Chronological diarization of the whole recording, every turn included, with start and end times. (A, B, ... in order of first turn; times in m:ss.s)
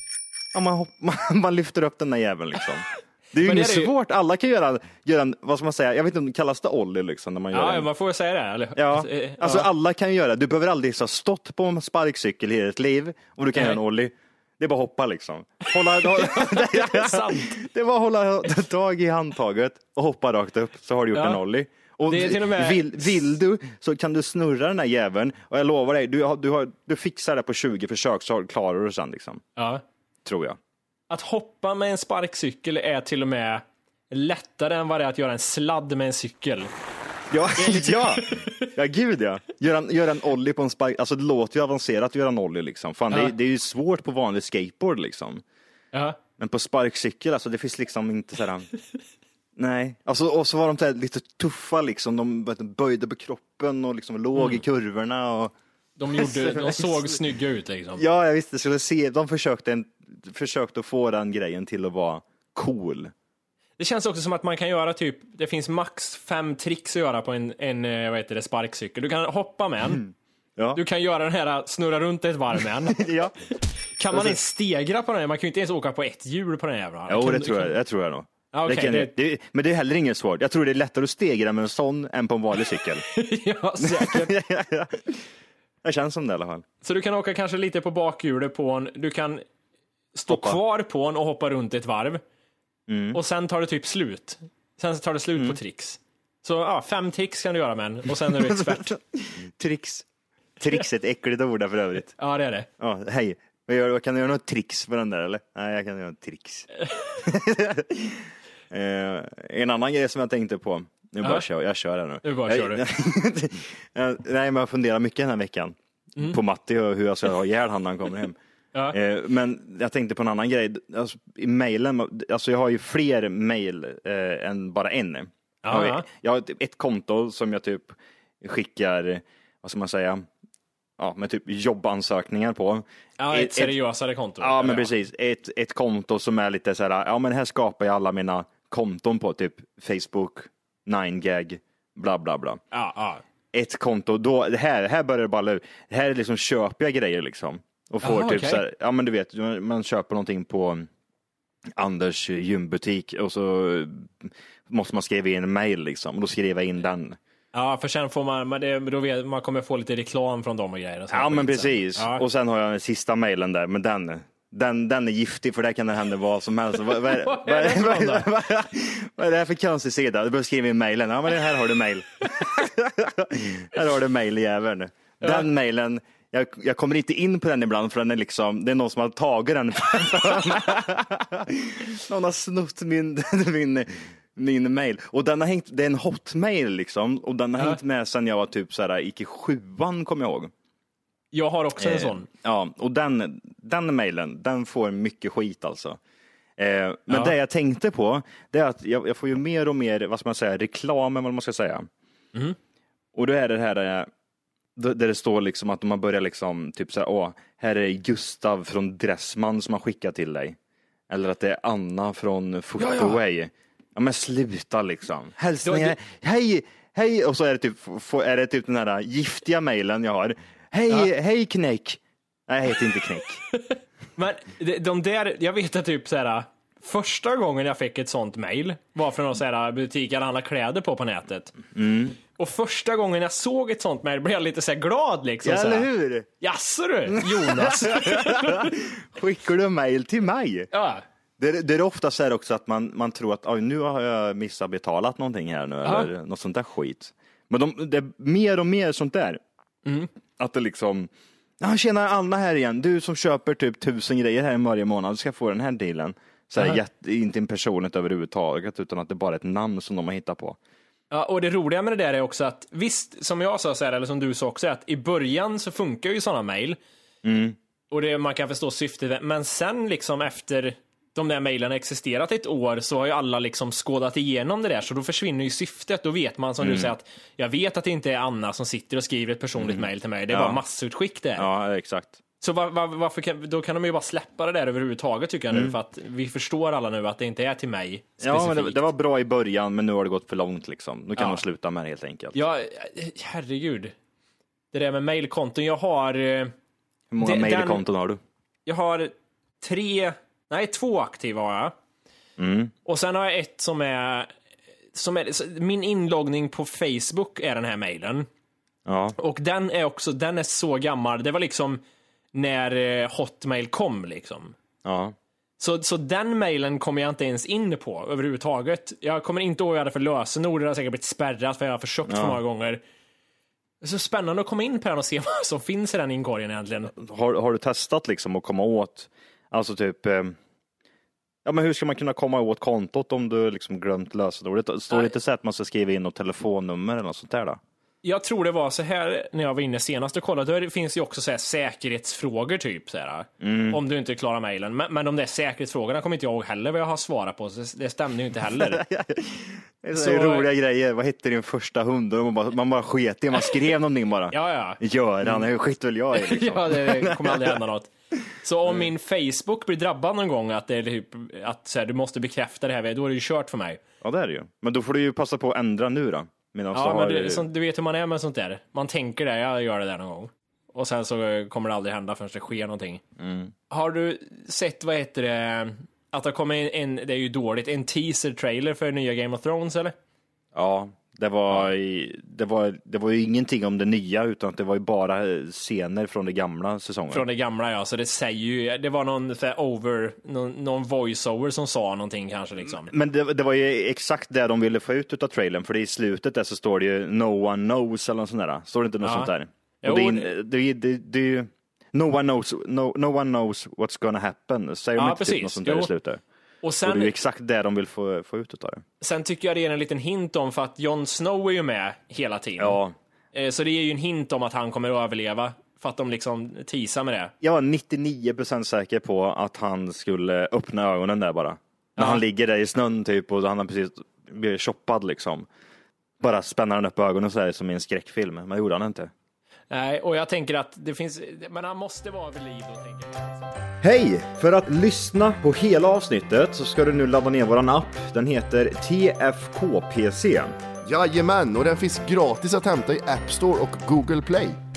0:00.5-0:07.9 A
0:03.4-0:03.9 B
0:07.5-0:09.7 B
0:08.8-0:29.4 A
0:13.5-0:13.8 B
0:15.6-0:17.6 B
0:21.1-0:21.4 B
0:22.1-0:23.2 B
0:29.6-0:29.8 B
0:30.2-0:30.6 A
0:31.1-0:36.7 B
0:37.3-0:45.4 A
0:37.6-0:38.7 B
0:45.9-0:46.2 B
0:46.4-0:48.7 A
0:49.6-0:55.5 A
0:54.4-0:54.6 B
0:56.0-0:58.0 B
0:56.1-0:57.2 A
0:58.0-1:03.1 A
1:03.8-1:10.0 B
1:09.9-1:10.8 A
1:10.8-1:13.0 B
1:12.9-1:13.3 A
1:14.0-1:17.8 B
1:14.1-1:14.4 A
1:17.1-1:23.1 A
1:18.5-1:19.1 B
1:23.1-1:24.3 B
1:23.8-1:25.2 A
1:25.8-1:26.6 A
1:26.8-1:29.4 B
1:30.2-1:32.2 B
1:30.3-1:30.6 A
1:32.9-1:33.2 A
1:33.1-1:38.9 B
1:38.1-1:40.1 A
1:40.6-1:42.1 A
1:42.2-1:42.7 B
1:42.8-1:58.4 A
1:52.2-1:52.8 B
1:58.9-2:10.3 A
2:05.6-2:06.1 B
2:11.0-2:13.8 A
2:13.2-2:14.9 B
2:14.4-2:22.6 A
2:22.7-2:23.2 B
2:23.5-2:30.9 A
2:28.0-2:28.6 B
2:31.7-2:37.2 A
2:37.5-2:42.2 B
2:41.1-3:10.5 A
2:46.9-2:48.3 B
2:55.2-2:55.5 B
3:11.3-3:12.3 B
3:11.8-3:16.0 A
3:16.6-3:21.9 A
3:23.2-3:24.1 A
3:24.8-3:30.6 A
3:31.1-3:43.4 A
3:32.8-3:33.2 B
3:35.6-3:36.0 B
3:43.5-3:51.6 B
3:51.7-3:52.2 A
3:52.4-3:55.9 B
3:55.4-3:56.3 A
3:56.4-3:58.7 B
3:57.1-4:00.7 A
4:00.7-4:01.0 B
4:01.4-4:09.4 A
4:05.8-4:06.1 B
4:10.4-4:20.6 A
4:21.1-4:26.8 B
4:27.2-4:27.6 A
4:27.9-4:41.5 B
4:36.6-4:37.0 A
4:39.6-4:40.6 A
4:41.4-4:42.2 A
4:42.4-4:48.8 B
4:45.5-4:45.8 A
4:48.2-4:52.4 A
4:51.2-4:51.4 B
4:52.3-4:53.9 B
4:54.7-4:56.5 B
4:57.1-4:58.2 A
4:57.2-4:57.8 B
4:58.7-5:01.7 B
5:02.4-5:02.7 A
5:02.9-5:04.3 B
5:04.9-5:08.3 B
5:08.9-5:09.2 A
5:09.2-5:11.8 B
5:12.3-5:14.6 B
5:14.8-5:15.2 A
5:15.6-5:22.8 B
5:22.1-5:22.4 A
5:23.8-5:26.9 B
5:27.0-5:30.4 A
5:31.4-5:37.6 A
5:38.0-5:48.8 B
5:43.4-5:43.8 A
5:48.4-5:57.6 A
5:49.9-5:50.5 B
5:54.3-5:55.5 B
5:56.1-5:57.9 B
5:58.4-6:03.8 B
6:04.0-6:07.4 A
6:06.7-6:13.0 B
6:13.2-6:13.5 A
6:13.7-6:20.0 B
6:20.5-6:27.3 A
6:27.1-6:32.9 B
6:32.6-6:46.2 A
6:39.0-6:39.3 B
6:39.8-6:40.3 B
6:45.0-6:45.9 B
6:46.6-6:47.2 B
6:46.8-6:48.8 A
6:49.0-6:52.8 B
6:52.6-6:52.9 A
6:53.3-6:57.3 B
6:57.4-7:05.5 A
7:02.0-7:02.2 B
7:06.2-7:09.1 A
7:09.7-7:13.5 B
7:13.8-7:20.5 A
7:20.8-7:24.6 C